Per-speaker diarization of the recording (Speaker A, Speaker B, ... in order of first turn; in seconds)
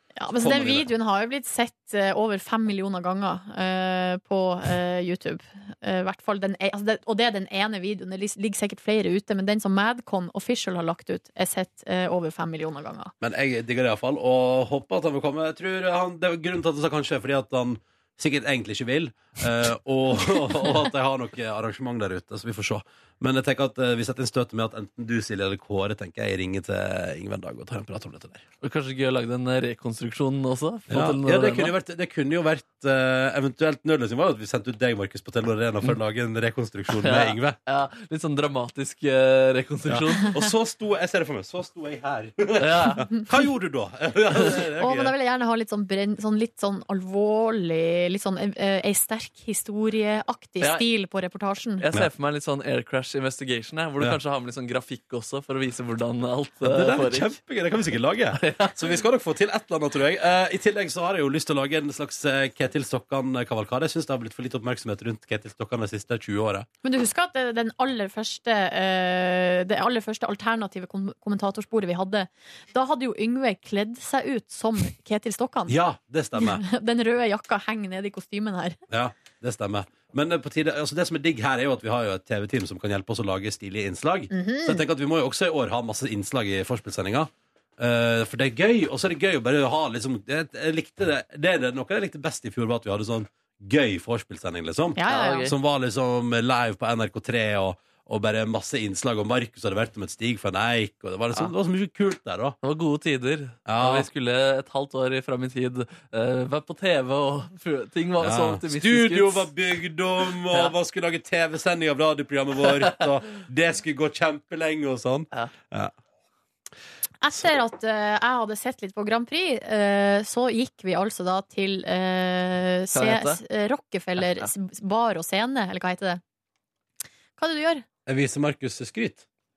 Speaker A: 0.2-13.1, 44.8-51.8, 66.8-75.8, 76.4-78.8, 84.3-84.8, 95.0-95.5, 117.2-126.2, 127.4-127.8
Speaker B: 0.4-0.9, 13.2-28.4, 30.9-37.6, 39.9-45.1, 56.6-66.7, 75.7-76.6, 78.9-102.6, 103.7-104.1, 108.2-115.9, 128.1-129.2
Speaker C: 28.6-31.7, 37.0-40.4, 42.6-43.1, 51.8-57.3, 58.4-58.8, 95.1-95.5, 102.6-109.5, 122.9-123.4, 124.2-124.5